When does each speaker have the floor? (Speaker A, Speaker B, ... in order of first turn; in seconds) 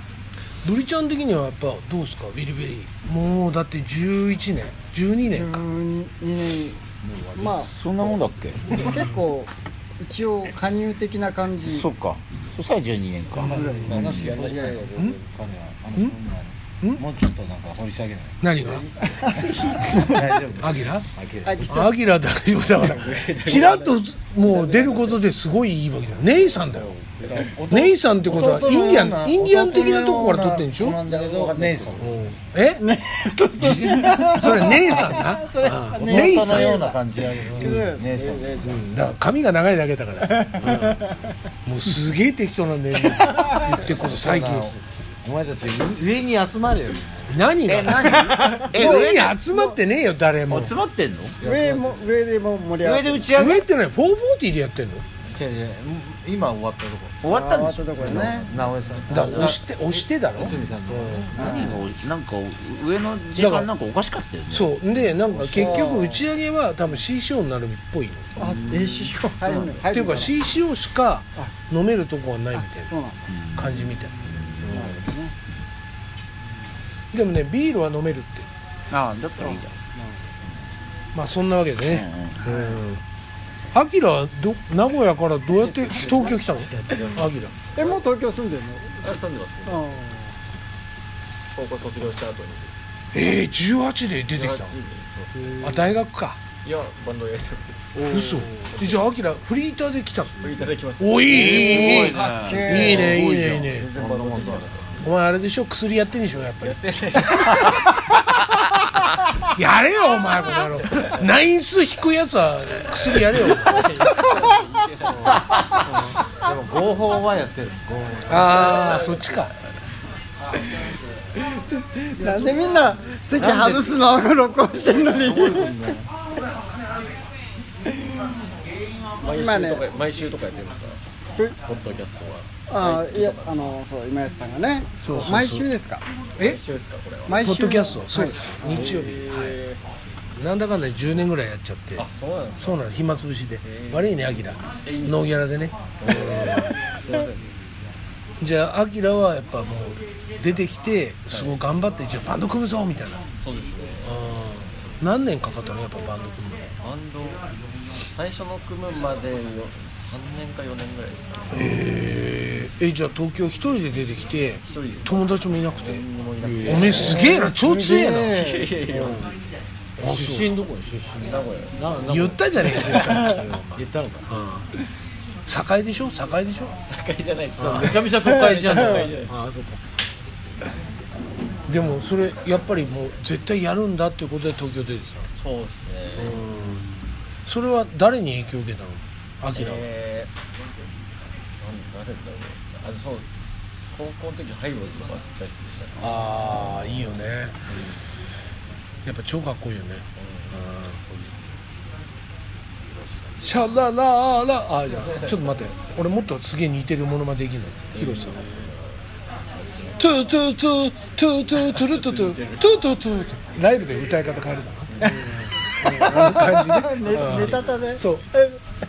Speaker A: 0.6-5.6, 8.8-9.1, 14.9-15.2, 18.4-18.9, 19.7-21.1, 21.7-26.9, 27.6-31.0, 32.0-36.8, 38.6-41.0, 41.6-44.7, 47.3-50.7, 53.3-55.1, 59.1-61.3, 63.4-63.7, 64.5-68.3, 69.9-72.9, 73.5-74.8, 77.1-78.5, 81.1-83.0, 83.7-87.5, 93.1-94.7, 95.6-96.4, 98.1-100.4, 101.0-103.9, 105.0-108.1, 109.5-113.9, 118.2-119.5, 135.0-135.7, 137.4-139.6, 140.3-146.7, 148.4-153.2, 154.0-156.7, 161.5-166.1, 166.6-169.3, 170.0-170.6, 171.8-174.7, 175.4-176.8, 177.6-178.1, 179.1-179.8, 181.7-185.3, 186.2-186.9, 187.4-189.9, 196.0-197.8, 199.0-201.0, 203.4-208.4, 210.0-218.2
Speaker B: 5.3-6.8, 7.3-7.7, 8.7-11.9, 13.4-14.4, 19.2-20.2, 21.4-21.9, 32.8-38.8, 40.2-41.2, 43.2-43.9, 48.6-49.8, 51.4-53.3, 57.2-58.5, 61.3-61.8, 65.5-66.3, 68.3-70.4, 72.5-73.3, 74.6-75.3, 79.4-80.3, 82.5-82.8, 87.7-89.1, 89.7-90.3, 98.0-98.7, 101.3-103.2, 114.1-114.4, 122.0-126.0, 129.3-129.8, 132.7-136.0, 137.2-139.1, 166.9-168.7, 215.8-218.6
Speaker C: 7.0-8.2, 13.3-18.4, 19.9-21.8, 27.2-28.6, 30.5-32.2, 36.9-38.5, 43.8-47.4, 48.1-48.5, 51.4-52.1, 55.3-57.2, 58.0-61.7, 65.3-65.8, 95.4-96.0, 100.4-100.7, 101.7-105.0, 116.4-119.0, 122.2-122.7, 123.3-124.1, 124.8-126.1, 166.4-167.0, 170.1-172.4, 177.6-179.1
Speaker D: 7.4-8.8, 11.6-14.3, 28.2-32.0, 34.6-35.0, 36.0-38.6, 47.6-49.4, 50.5-51.4, 52.8-53.6, 57.2-59.1, 60.4-60.8, 61.3-64.8, 68.4-69.8, 73.3-75.0, 78.9-79.7, 81.8-82.4, 101.3-103.2
Speaker E: 13.9-15.1, 18.6-20.3, 22.7-25.2, 26.2-27.6, 68.4-68.8, 85.5-88.0, 89.0-90.1, 91.5-92.7, 94.3-95.6, 96.6-98.2, 100.4-102.1, 103.2-105.1, 106.6-107.9, 113.4-115.8, 118.4-119.3, 129.2-131.0, 131.6-133.8, 135.0-135.4, 136.4-137.5, 138.6-140.0, 141.9-142.9, 143.6-145.4, 146.0-147.5, 151.3-151.6, 153.4-154.9, 156.8-161.8, 164.7-167.2, 168.3-169.4, 171.2-174.3, 176.9-179.3, 185.3-186.7, 189.5-190.3, 191.6-197.0, 197.7-198.0, 200.2-200.8, 207.9-209.0, 209.5-210.2, 211.6-212.8, 214.9-215.4, 217.0-217.8